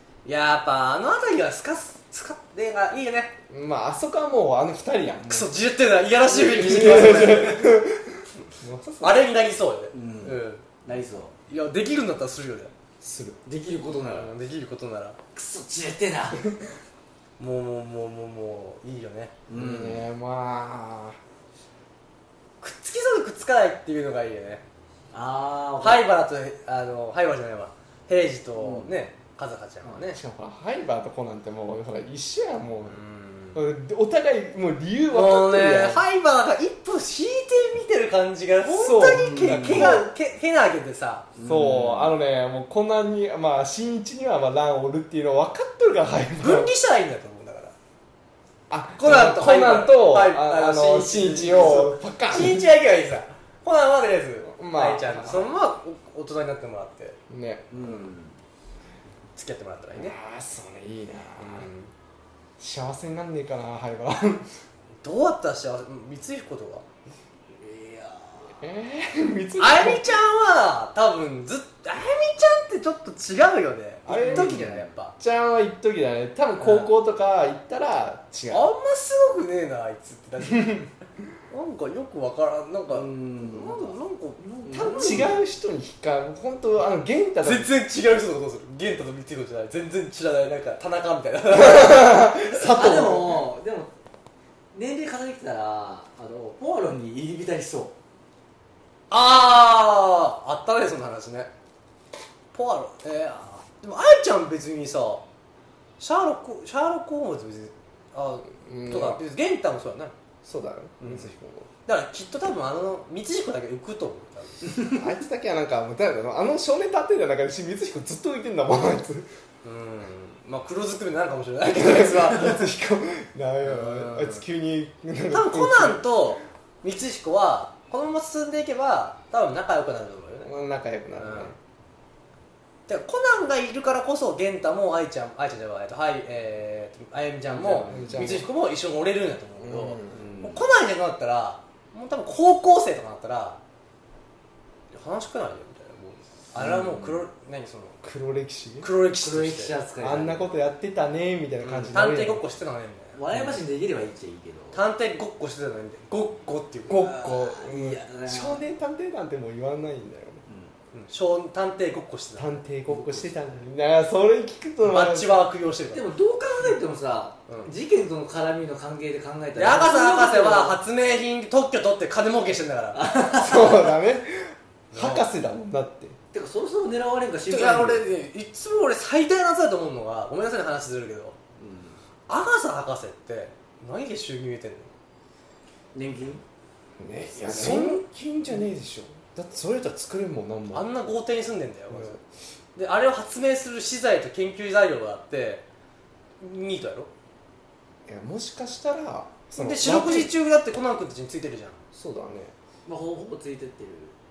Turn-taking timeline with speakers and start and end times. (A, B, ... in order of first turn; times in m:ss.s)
0:00.2-0:03.4 A
0:03.5-0:05.6 B
0:05.2-0:07.8 A
0:06.3-0:09.2 B
0:06.6-0:07.3 C
0:09.0-0:10.6 A
0:09.9-0:11.3 C
0:11.5-0:12.7 A
0:13.0-0:13.4 B
0:13.4-0:14.4 C
0:14.1-0:15.2 A
0:15.3-0:16.5 C
0:17.4-0:19.3 A
0:19.5-0:20.1 C
0:19.5-0:21.2 B
0:22.6-0:24.6 A
0:25.1-0:26.0 C
0:25.8-0:30.2 A
0:28.6-0:28.9 C
0:30.1-0:33.0 B
0:32.9-0:33.6 A
0:33.5-0:36.0 B
0:35.1-0:41.3 A
0:38.6-0:40.1 B
0:39.0-0:40.1 C
0:41.4-0:42.2 C
0:41.4-0:46.7 B
0:46.4-0:47.8 A
0:48.7-0:52.7 B
0:49.0-0:57.2 A
0:54.4-0:55.5 B
0:57.3-0:58.0 B
0:57.7-0:58.4 C
0:59.4-1:00.2 A
1:00.0-1:01.7 B
1:01.4-1:01.9 A
1:02.6-1:04.5 B
1:05.0-1:06.9 A
1:07.6-1:08.6 C
1:08.6-1:10.1 B
1:09.6-1:15.1 A
1:14.1-1:18.7 B
1:14.1-1:14.9 C
1:16.6-1:16.9 C
1:18.5-1:20.9 A
1:21.5-1:25.4 A
1:22.9-1:24.0 C
1:24.6-1:25.4 C
1:25.0-1:27.7 B
1:27.4-1:32.7 A
1:31.5-1:33.5 B
1:32.6-1:33.9 C
1:34.7-1:38.0 C
1:39.1-1:41.5 A
1:42.5-1:45.2 A
1:46.0-1:50.1 A
1:48.5-1:49.2 B
1:50.4-1:51.7 B
1:51.0-1:51.3 A
1:51.9-1:54.7 A
1:54.9-1:59.3 B
1:59.6-2:02.7 A
2:01.7-2:06.1 B
2:03.6-2:04.4 A
2:05.3-2:10.5 A
2:10.4-2:11.6 B
2:11.2-2:11.6 A
2:12.9-2:23.6 A
2:17.5-2:18.5 B
2:17.9-2:18.2 C
2:19.6-2:20.3 B
2:20.1-2:20.6 C
2:24.9-2:28.0 A
2:26.6-2:27.2 C
2:28.0-2:28.9 B
2:28.8-2:29.7 A
2:29.1-2:30.5 C
2:30.0-2:32.4 B
2:31.6-2:31.9 C
2:31.9-2:33.2 A
2:33.2-2:34.8 C
2:34.7-2:37.1 A
2:36.9-2:40.4 B
2:37.0-2:38.6 C
2:40.5-2:40.7 C
2:40.9-2:42.6 A
2:42.4-2:45.4 B
2:42.9-2:43.6 C
2:44.8-2:46.1 A
2:45.9-2:50.8 C
2:47.5-2:47.7 A
2:49.6-2:53.1 A
2:53.0-2:53.8 C
2:53.3-2:56.2 B
2:54.9-2:55.2 A
2:56.3-2:58.0 C
2:57.5-3:01.4 A
3:01.6-3:02.0 C
3:02.3-3:04.9 A
3:05.9-3:06.4 C
3:07.0-3:10.9 B
3:07.4-3:08.0 A
3:07.5-3:07.9 C
3:10.7-3:12.2 A
3:11.9-3:12.2 B
3:12.8-3:15.6 A
3:16.4-3:17.1 A
3:18.1-3:20.3 B
3:19.6-3:21.8 A
3:21.9-3:22.5 B
3:22.9-3:24.2 C